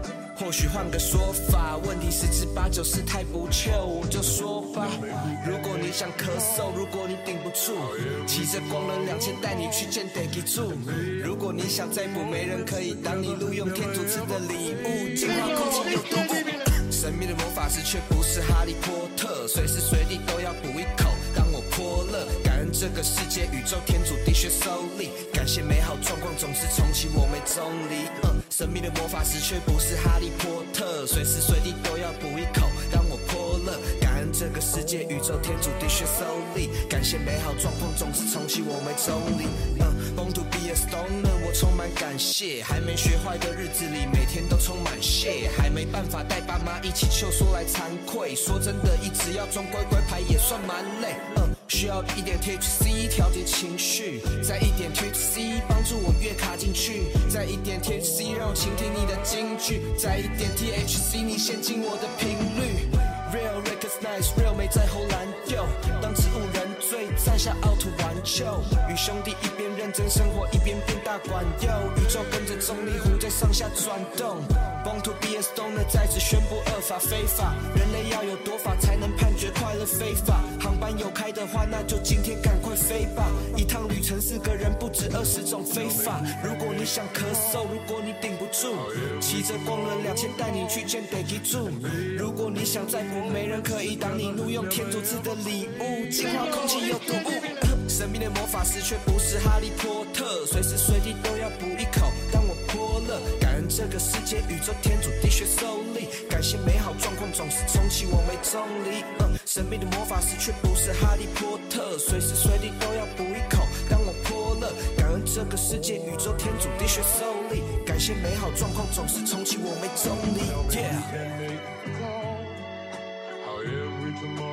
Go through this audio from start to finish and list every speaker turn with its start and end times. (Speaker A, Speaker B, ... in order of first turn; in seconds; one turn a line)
Speaker A: 0.3-121.4